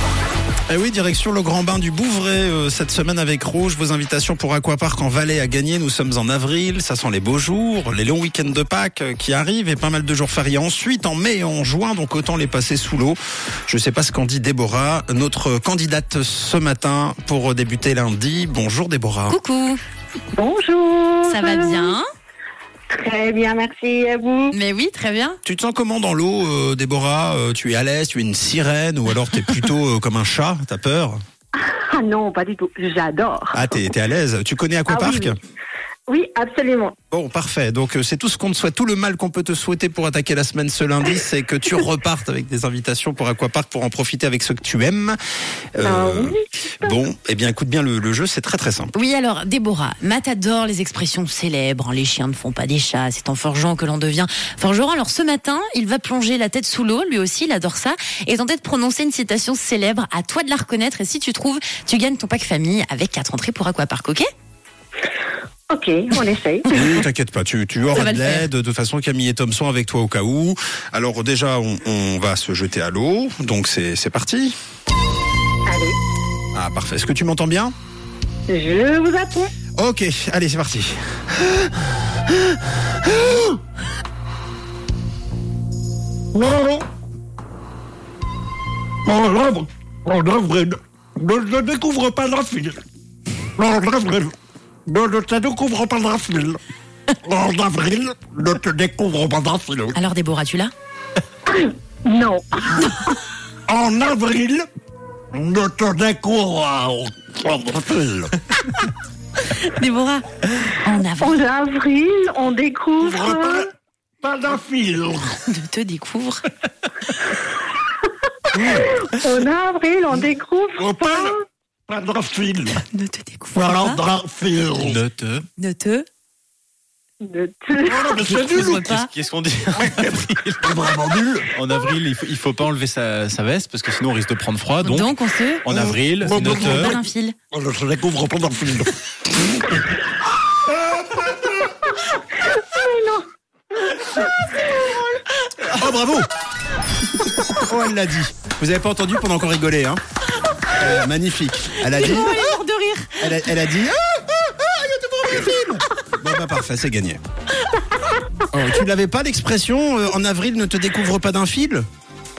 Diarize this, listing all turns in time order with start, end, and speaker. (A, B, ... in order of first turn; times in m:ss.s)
0:00.7-0:19.4 A
0:19.3-0:19.8 B
0:20.3-0:21.9 C
0:21.3-0:22.0 B
0:22.9-0:24.6 C
0:24.5-0:25.4 B
0:25.4-0:31.2 A
0:31.6-0:33.8 C
0:33.5-0:35.4 A
0:34.9-0:35.4 C
0:36.1-0:36.9 C
0:37.1-0:45.2 A
0:45.7-0:48.9 A
0:45.8-0:47.0 C
0:48.9-1:04.3 B
1:05.7-1:06.9 C
1:06.7-1:14.5 A
1:07.9-1:08.5 B
1:15.7-1:16.0 C
1:16.5-1:17.7 A
1:18.5-1:19.5 C
1:19.8-1:21.7 A
1:23.0-1:23.4 A
1:26.3-1:26.8 D
1:29.0-1:32.8 D
1:33.6-1:34.3 D
1:34.8-1:36.6 D
1:37.2-1:39.9 D
1:39.9-1:40.7 B
1:41.5-1:43.1 C
1:43.7-1:44.6 D
1:45.3-1:48.4 D
1:49.4-1:51.4 B
1:51.2-1:53.6 C
1:53.0-1:53.6 D
1:54.2-1:55.3 D
1:55.4-1:56.4 B
1:58.5-2:01.4 C
2:00.8-2:01.3 D
2:01.9-2:02.8 D
2:02.8-2:04.0 B
2:03.5-2:05.0 D
2:04.8-2:05.4 E
2:05.6-2:06.0 B
2:07.2-2:08.2 C
2:07.8-2:08.8 D
2:08.2-2:09.1 B
2:08.5-2:10.7 E
2:09.8-2:10.1 D
2:10.6-2:11.5 D
2:11.5-2:17.0 E
2:14.8-2:15.6 B
2:15.7-2:17.0 D
2:16.4-2:17.3 B
2:17.5-2:19.8 D
2:22.0-2:23.2 C
2:23.8-2:25.1 C
2:25.8-2:26.2 A
2:27.5-2:30.0 A
2:30.7-2:32.5 A
2:31.8-2:33.3 B
2:33.2-2:37.2 A
2:38.5-2:41.8 A